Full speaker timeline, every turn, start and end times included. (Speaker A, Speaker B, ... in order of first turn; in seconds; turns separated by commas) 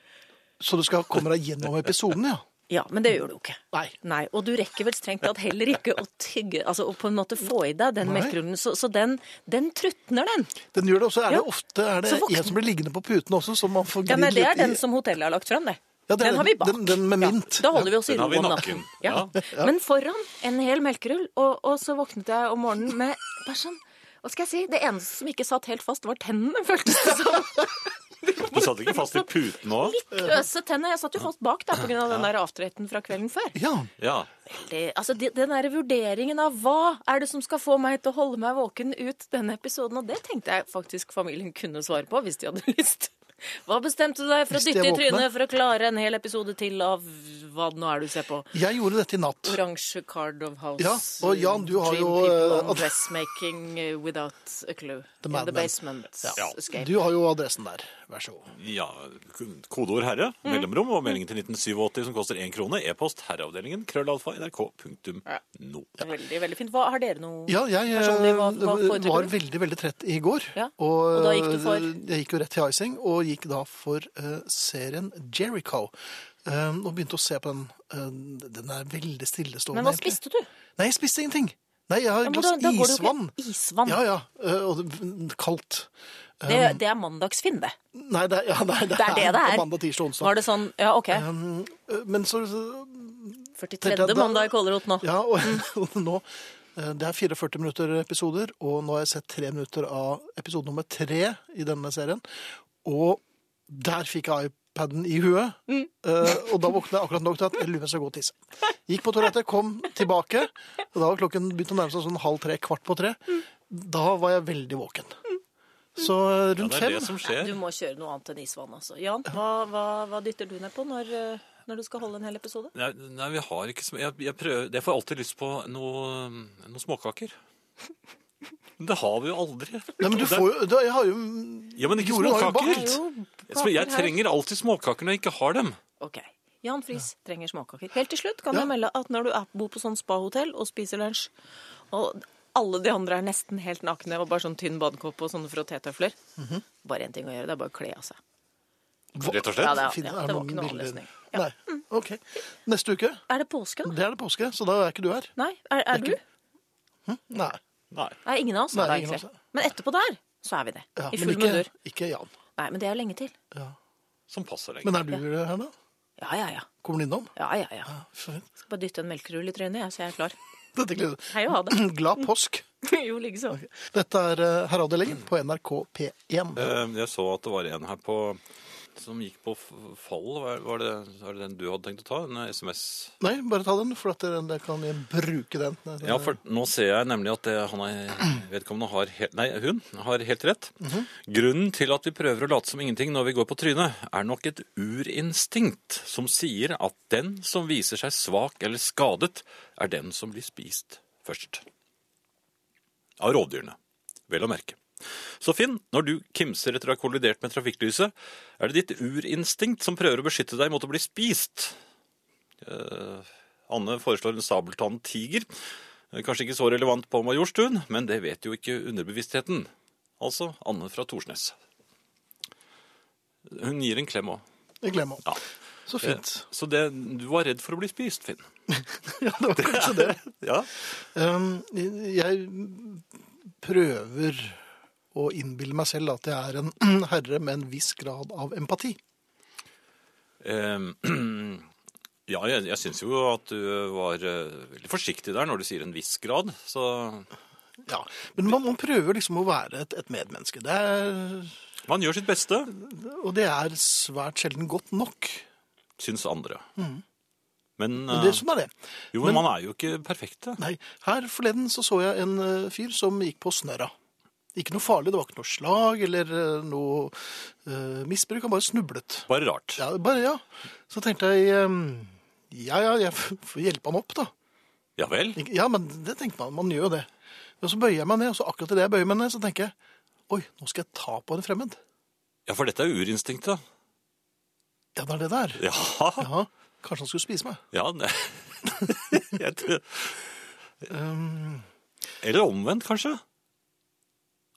Speaker A: 0.6-2.4, Speaker B: 2.7-10.6, Speaker A: 8.0-8.4, Speaker A: 10.7-14.8, Speaker B: 12.1-12.5, Speaker B: 14.1-33.6, Speaker A: 16.1-17.9, Speaker C: 17.9-19.3, Speaker A: 19.4-19.7, Speaker C: 28.4-30.0, Speaker A: 33.5-33.9, Speaker C: 34.0-34.3, Speaker B: 34.5-48.6, Speaker A: 44.5-45.3, Speaker A: 48.5-49.6, Speaker B: 49.5-56.9, Speaker A: 50.8-52.9, Speaker A: 55.2-58.5, Speaker C: 58.5-65.9, Speaker B: 66.0-69.3, Speaker A: 67.5-75.9, Speaker B: 70.5-71.9, Speaker A: 76.5-80.2, Speaker B: 79.7-80.5, Speaker A: 80.8-83.3, Speaker B: 82.2-84.0, Speaker A: 83.8-85.9, Speaker A: 86.4-86.8, Speaker B: 86.5-87.8, Speaker A: 87.9-90.3, Speaker B: 88.9-91.3, Speaker A: 91.1-102.2, Speaker B: 93.6-95.6, Speaker A: 102.8-115.2, Speaker A: 116.0-117.1, Speaker C: 116.6-117.6, Speaker B: 117.3-122.7, Speaker C: 122.7-127.4, Speaker C: 128.8-130.5, Speaker A: 130.0-133.0, Speaker C: 131.8-135.8, Speaker B: 132.6-134.2, Speaker B: 136.0-141.3, Speaker B: 141.9-146.2, Speaker B: 146.8-148.2, Speaker A: 149.2-153.2, Speaker C: 149.2-149.8, Speaker B: 149.4-151.8, Speaker B: 153.3-153.9, Speaker A: 153.8-155.3, Speaker B: 155.4-156.2, Speaker A: 157.1-157.6, Speaker C: 157.9-158.2, Speaker B: 158.2-161.7, Speaker A: 158.7-159.4, Speaker A: 161.0-162.3, Speaker B: 162.6-163.3, Speaker C: 164.3-165.0, Speaker A: 164.8-165.7, Speaker B: 166.2-166.7, Speaker A: 166.8-167.3, Speaker B: 167.4-167.9, Speaker A: 167.9-168.4, Speaker B: 168.6-170.3, Speaker A: 170.8-172.6, Speaker B: 171.3-171.9, Speaker B: 172.8-173.6, Speaker A: 173.5-176.7, Speaker C: 176.6-178.4, Speaker C: 178.9-183.2, Speaker A: 183.2-186.4, Speaker C: 186.0-201.7, Speaker A: 190.8-191.1, Speaker C: 203.2-203.8, Speaker C: 204.3-211.8, Speaker C: 212.6-215.5, Speaker C: 216.1-221.6, Speaker C: 223.4-224.4, Speaker A: 224.8-225.4, Speaker A: 225.9-226.4, Speaker C: 226.0-228.5, Speaker A: 228.8-230.2, Speaker C: 229.6-230.7, Speaker A: 230.9-233.1, Speaker A: 233.6-234.6, Speaker A: 235.1-239.0, Speaker C: 240.4-241.7, Speaker C: 242.3-247.3, Speaker A: 247.9-251.6, Speaker C: 251.8-252.7, Speaker A: 252.7-255.5, Speaker C: 256.0-256.6, Speaker A: 256.8-257.0, Speaker C: 257.8-258.4, Speaker A: 258.1-259.4, Speaker C: 259.1-260.6, Speaker A: 260.6-263.9, Speaker A: 264.6-274.3, Speaker C: 269.3-269.8, Speaker C: 275.0-275.4, Speaker A: 275.4-277.1, Speaker A: 277.6-279.7, Speaker A: 280.3-281.8, Speaker C: 282.5-283.6, Speaker A: 285.0-285.6, Speaker C: 285.6-286.3, Speaker A: 286.2-287.6, Speaker C: 287.7-290.2, Speaker A: 290.9-291.7, Speaker C: 292.2-293.2